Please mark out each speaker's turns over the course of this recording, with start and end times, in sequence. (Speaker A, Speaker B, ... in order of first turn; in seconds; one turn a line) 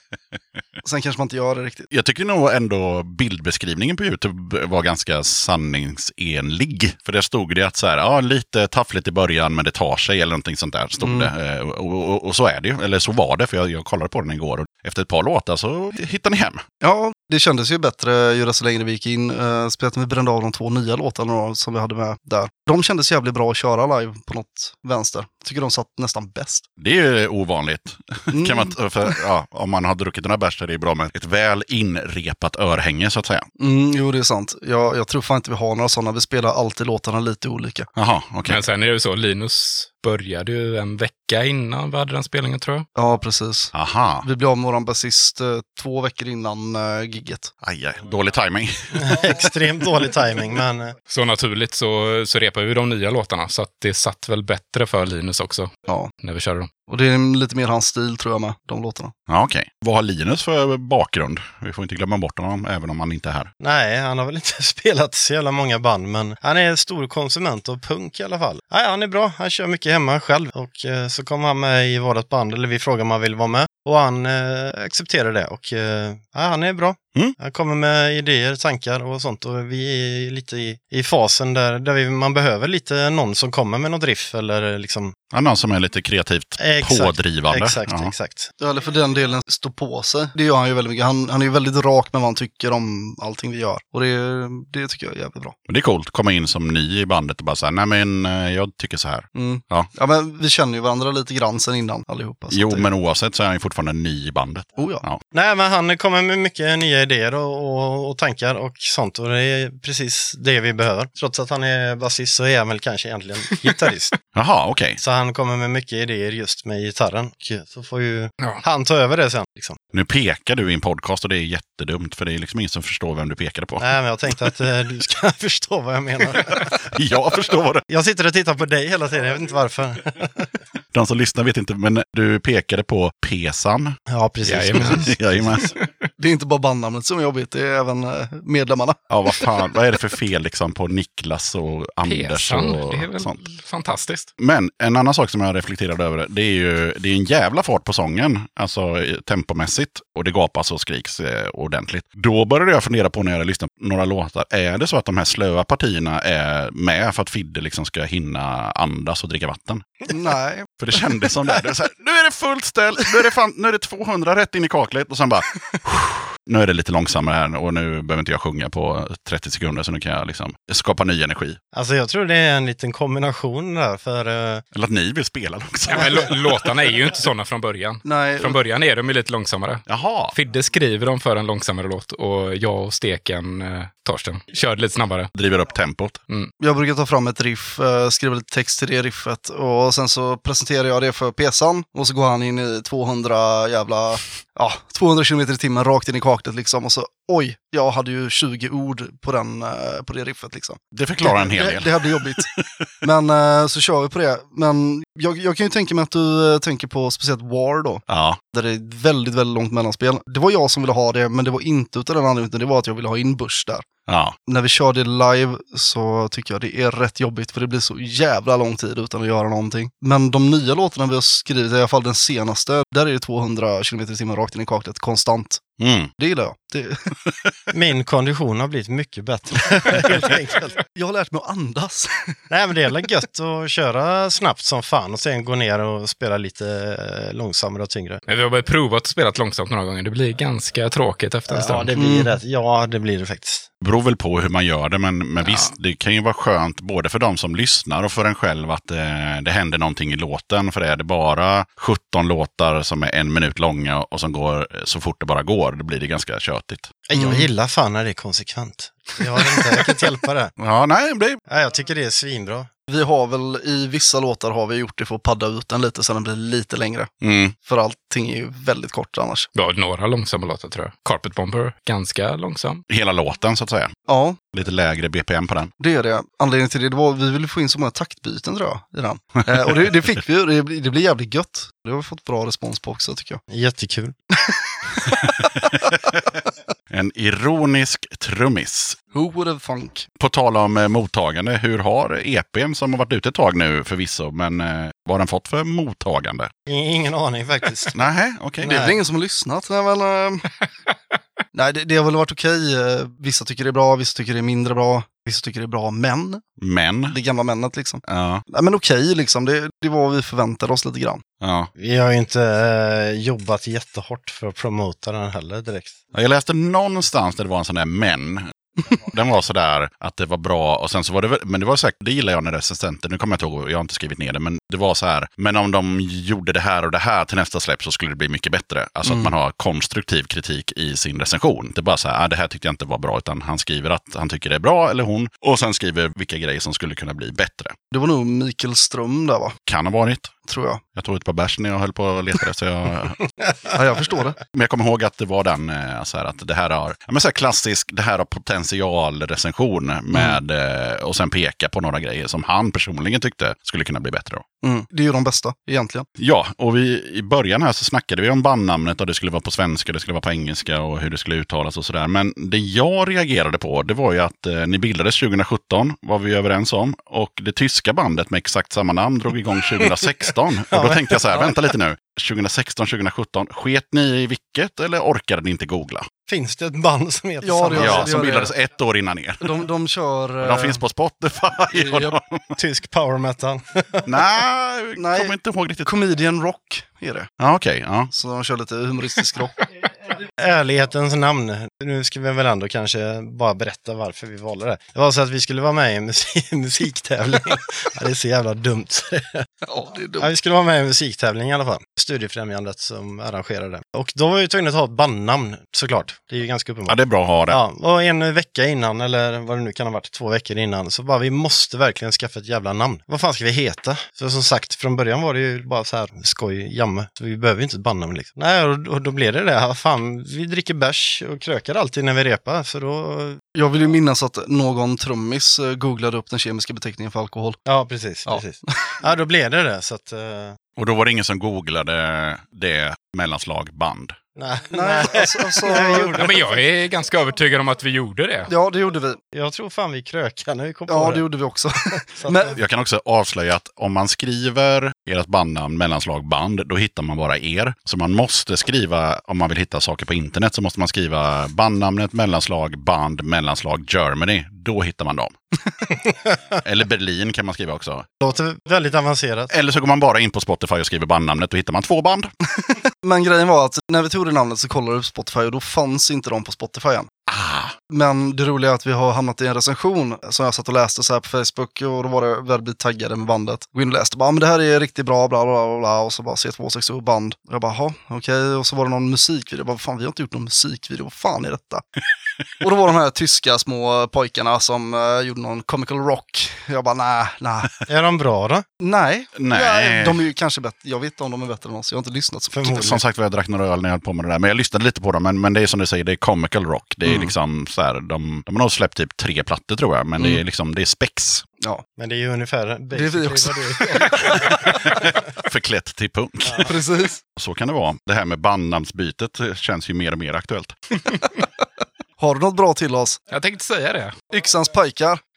Speaker A: 0.8-1.9
Speaker B: 1.9-16.6
Speaker A: 11.0-11.3
Speaker A: 16.8-26.6
Speaker B: 26.8-33.5
Speaker A: 28.3-28.8
Speaker A: 33.6-37.9
Speaker B: 37.9-38.6
Speaker C: 38.5-42.9
Speaker A: 43.0-47.5
Speaker B: 43.7-44.2
Speaker B: 47.6-49.2
Speaker D: 49.0-51.0
Speaker C: 51.1-56.7
Speaker A: 56.9-59.1
Speaker B: 59.3-63.5
Speaker D: 63.6-85.2
Speaker B: 85.3-88.1
Speaker D: 86.6-88.5
Speaker A: 88.6-95.5
Speaker B: 95.7-99.9
Speaker A: 99.3-102.9
Speaker B: 102.5-105.2
Speaker A: 104.8-105.0
Speaker D: 105.3-114.1
Speaker B: 114.3-115.0
Speaker D: 115.0-119.8
Speaker B: 119.9-123.9
Speaker D: 123.8-126.7
Speaker B: 126.5-127.8
Speaker D: 127.9-130.5
Speaker B: 130.9-134.0
Speaker D: 134.1-135.6
Speaker C: 134.4-135.1
Speaker B: 134.8-135.7
Speaker A: 136.2-139.0
Speaker B: 139.1-143.4
Speaker C: 142.0-144.3
Speaker B: 144.4-159.9
Speaker A: 160.1-160.7
Speaker B: 160.8-171.6
Speaker D: 171.7-174.6
Speaker B: 174.7-176.4
Speaker C: 175.9-185.3
Speaker A: 178.0-178.6
Speaker B: 179.9-180.3
Speaker B: 185.3-186.2
Speaker A: 186.6-202.5
Speaker B: 200.9-202.8
Speaker A: 203.0-213.8
Speaker B: 208.1-208.4
Speaker B: 214.1-214.3
Speaker A: 214.5-225.6
Speaker B: 225.8-226.1
Speaker A: 226.2-227.1
Speaker D: 227.7-230.8
Speaker A: 230.9-232.3
Speaker D: 232.5-238.2
Speaker C: 238.3-241.9
Speaker D: 241.5-243.7
Speaker A: 241.9-242.3
Speaker B: 243.8-256.9
Speaker C: 245.4-245.7
Speaker D: 257.1-260.5
Speaker A: 257.1-257.5
Speaker B: 260.6-261.4
Speaker D: 261.5-262.7
Speaker A: 262.9-267.1
Speaker B: 267.2-267.5
Speaker A: 267.6-269.5
Speaker C: 269.5-272.8
Speaker B: 272.9-273.9
Speaker A: 274.1-274.4
Speaker B: 274.5-275.7
Speaker A: 275.8-283.4
Speaker D: 283.5-284.1
Speaker A: 285.0-285.3
Speaker B: 286.9-289.0
Speaker A: 289.1-290.1
Speaker B: 290.2-296.5
Speaker D: 296.7-298.0
Speaker B: 297.9-298.9
Speaker A: 298.6-300.5
Speaker D: 298.6-299.0
Speaker A: 301.5-306.4
Speaker B: 306.6-307.2
Speaker A: 307.1-311.2
Speaker B: 308.0-308.4
Speaker B: 311.4-311.7
Speaker D: 311.8-316.0
Speaker B: 316.1-337.7
Speaker A: 329.0-329.3
Speaker A: 337.9-339.6
Speaker B: 339.7-340.3
Speaker A: 340.5-340.8
Speaker B: 340.9-343.2
Speaker A: 343.7-344.4
Speaker B: 344.5-354.4
Speaker A: 354.6-356.1
Speaker B: 356.2-376.1
Speaker D: 370.7-371.6
Speaker D: 376.3-378.2
Speaker A: 377.4-378.5
Speaker B: 377.8-379.6
Speaker A: 379.4-380.8
Speaker B: 380.4-382.6
Speaker A: 381.7-382.2
Speaker D: 382.6-384.1
Speaker B: 384.1-385.9
Speaker A: 384.9-387.3
Speaker B: 387.4-388.1
Speaker A: 388.1-389.6
Speaker D: 390.4-399.4
Speaker A: 399.6-400.3
Speaker D: 400.2-423.4
Speaker B: 406.9-407.6
Speaker A: 423.5-427.6
Speaker D: 427.6-430.6
Speaker B: 430.8-434.2
Speaker D: 434.4-436.6
Speaker A: 434.7-436.3
Speaker C: 436.1-438.5
Speaker A: 438.5-439.2
Speaker D: 439.3-441.2
Speaker A: 440.9-442.6
Speaker D: 442.1-442.6
Speaker B: 442.5-455.3
Speaker B: 456.6-458.1
Speaker D: 458.2-459.5
Speaker B: 459.5-462.3
Speaker A: 463.0-467.1
Speaker B: 467.3-467.7
Speaker A: 467.9-481.8
Speaker A: 482.6-487.7
Speaker D: 487.9-488.6
Speaker A: 488.8-492.6
Speaker B: 489.3-490.2
Speaker D: 492.5-493.0
Speaker B: 492.6-501.4
Speaker A: 497.0-497.3
Speaker A: 500.2-500.4
Speaker D: 502.0-505.1
Speaker A: 502.9-504.6
Speaker B: 505.4-506.7
Speaker A: 506.6-507.2
Speaker B: 507.4-510.8
Speaker A: 512.2-513.2
Speaker C: 513.3-514.1
Speaker A: 514.3-515.2